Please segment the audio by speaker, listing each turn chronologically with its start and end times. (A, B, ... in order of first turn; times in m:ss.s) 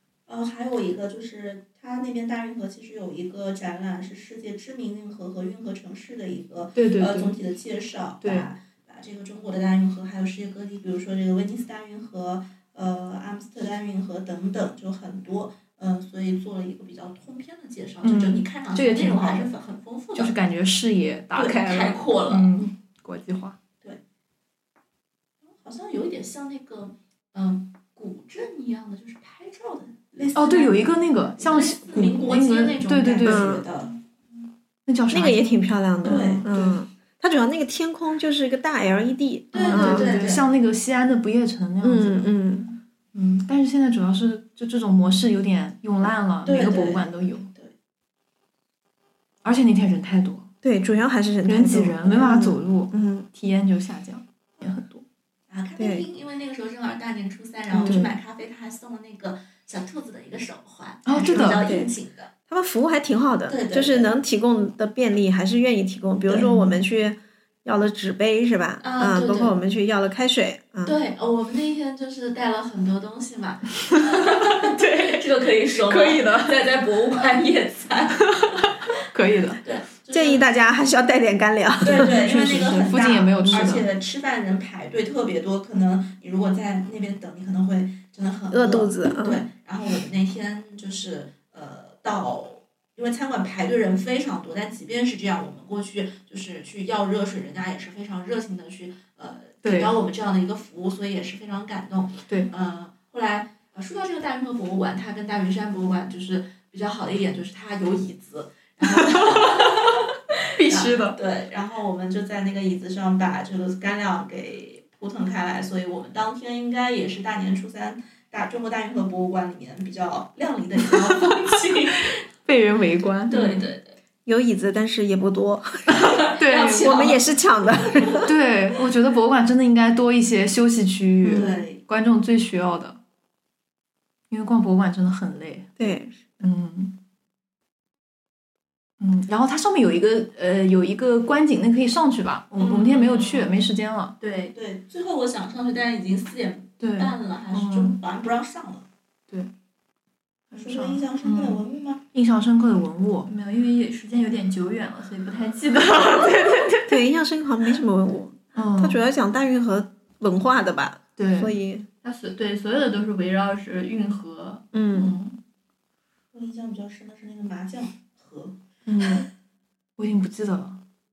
0:00.3-0:20.4 A
0:06.8-0:07.4 B
0:08.2-0:08.5 B
0:18.0-0:19.5 B
0:20.1-0:23.6 B
0:21.3-0:22.6 A
0:25.5-0:33.9 A
0:30.4-0:33.6 B
0:33.2-0:33.6 C
0:34.9-0:36.5 B
0:35.1-0:40.2 C
0:36.0-0:36.8 A
0:39.5-0:40.4 A
0:39.7-0:42.4 B
0:41.8-0:42.8 C
0:43.1-0:47.5 B
0:46.4-0:47.7 A
0:49.4-0:50.5 B
0:50.6-0:53.3 C
0:51.5-0:55.0 B
0:55.5-1:02.3 A
0:55.8-0:56.0 C
0:57.7-0:58.0 C
0:57.8-0:58.2 B
1:01.1-1:01.6 B
1:01.4-1:01.9 C
1:02.5-1:11.0 C
1:03.5-1:04.1 A
1:06.3-1:06.8 B
1:08.8-1:09.6 A
1:10.8-1:18.7 A
1:13.9-1:15.2 B
1:15.8-1:16.6 B
1:18.3-1:19.6 B
1:19.6-1:20.6 A
1:20.1-1:22.9 C
1:21.8-1:50.1 A
1:22.5-1:23.9 B
1:23.4-1:23.8 C
1:28.5-1:29.4 C
1:39.6-1:40.0 B
1:48.8-1:50.0 B
1:50.5-1:51.2 B
1:50.6-2:02.2 A
2:00.9-2:01.3 B
2:02.4-2:03.7 B
2:03.3-2:04.0 A
2:04.3-2:08.3 C
2:06.0-2:07.2 A
2:06.4-2:07.2 B
2:08.0-2:08.2 A
2:08.3-2:13.0 B
2:11.2-2:11.5 C
2:11.3-2:11.8 A
2:14.3-2:15.8 B
2:15.8-2:16.2 C
2:16.4-2:17.0 B
2:19.0-2:24.2 B
2:22.6-2:23.6 A
2:24.2-2:24.5 D
2:24.5-2:28.8 A
2:26.8-2:28.0 B
2:30.5-2:31.6 B
2:30.5-2:32.0 A
2:32.1-2:33.3 B
2:33.3-2:36.8 D
2:36.1-2:36.6 B
2:36.9-2:41.9 C
2:38.6-2:39.0 B
2:41.2-2:41.5 B
2:42.0-2:45.3 D
2:44.7-2:45.2 C
2:44.9-2:45.3 B
2:46.3-2:48.6 A
2:48.9-2:49.3 C
2:50.0-2:50.8 B